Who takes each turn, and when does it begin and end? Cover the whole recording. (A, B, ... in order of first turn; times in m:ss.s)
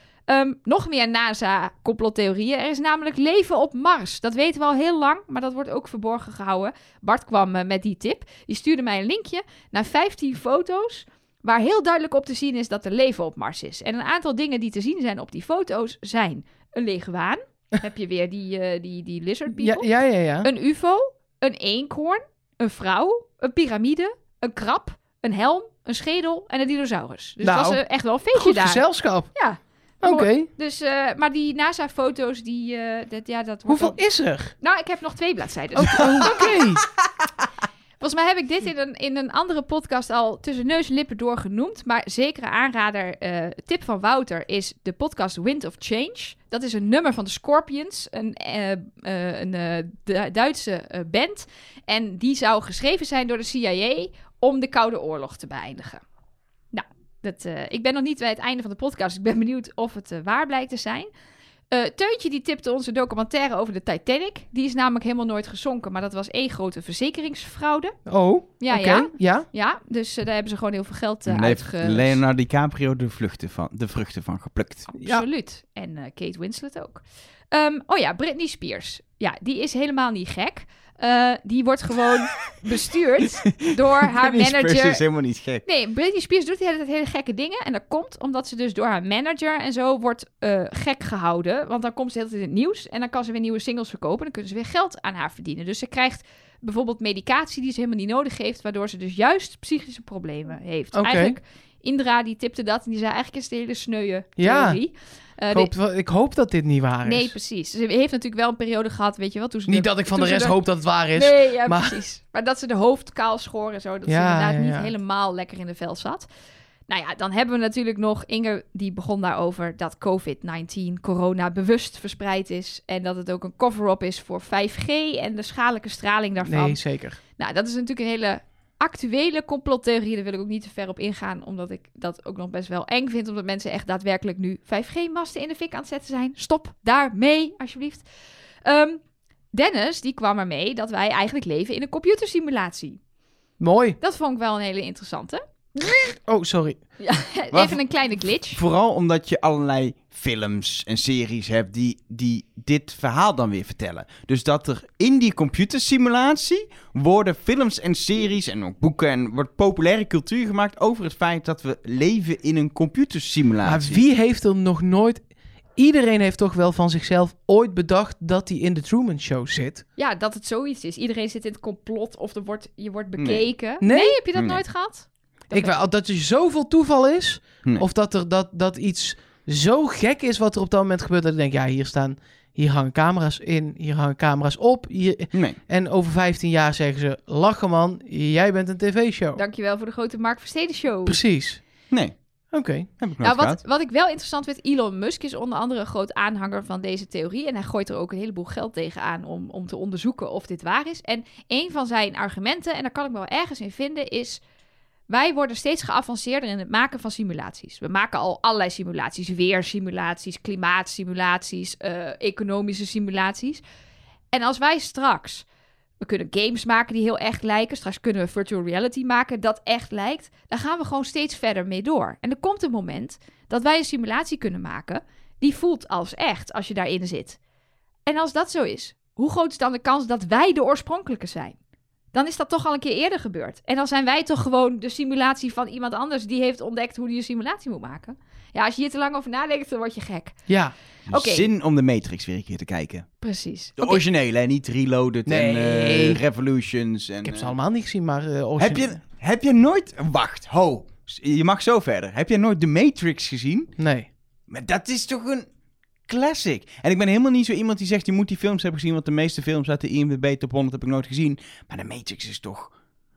0:00.3-0:19.9 A
0:19.5-0:20.5 B
0:20.4-0:28.8 A
0:27.4-0:27.8 B
0:28.3-0:29.3 B
0:29.3-0:34.0 A
0:30.0-0:30.5 B
0:33.7-0:34.5 B
0:34.6-0:36.6 A
0:35.7-0:36.8 B
0:38.0-0:56.0 A
0:56.7-1:01.1 A
1:01.7-1:08.0 A
1:08.1-1:09.5 B
1:08.6-1:12.2 A
1:11.3-1:14.9 C
1:14.9-1:25.0 A
1:23.4-1:25.6 C
1:25.6-1:45.7 A
1:40.9-1:41.4 B
1:44.4-1:44.8 B
1:45.5-1:47.3 B
1:47.0-1:50.6 A
1:49.7-1:52.0 B
1:51.1-1:56.3 A
1:54.1-1:54.9 B
1:56.9-2:06.8 A
2:06.4-2:07.2 B
2:07.4-2:18.0 A
2:18.6-2:19.0 A
2:19.5-2:23.0 A
2:23.6-2:24.0 B
2:24.0-2:25.4 A
2:26.1-2:26.8 B
2:27.0-2:28.6 A
2:27.5-2:27.8 C
2:28.5-2:44.0 C
2:43.6-2:45.2 B
2:45.8-2:49.8 B
2:50.0-2:55.8 A
2:53.2-2:53.4 C
2:53.8-2:54.2 B
2:54.3-2:54.6 C
2:55.5-3:09.4 B
3:05.3-3:05.6 C
3:09.4-3:11.2 A
3:11.1-3:11.6 B
3:11.9-3:12.2 C
3:12.5-3:12.9 B
3:13.0-3:13.6 C
3:13.2-3:24.4 A
3:25.1-3:33.6 A
3:34.3-3:35.4 A
3:36.0-3:47.4 A
3:48.0-3:51.6 A
3:52.1-4:00.4 A
4:00.5-4:00.7 B
4:01.1-4:03.1 C
4:01.1-4:01.5 A
4:03.2-4:04.0 A
4:03.8-4:07.5 C
4:05.2-4:06.2 B
4:07.2-4:08.9 B
4:08.6-4:13.7 C
4:13.8-4:14.1 B
4:14.5-4:15.5 C
4:16.1-4:22.7 C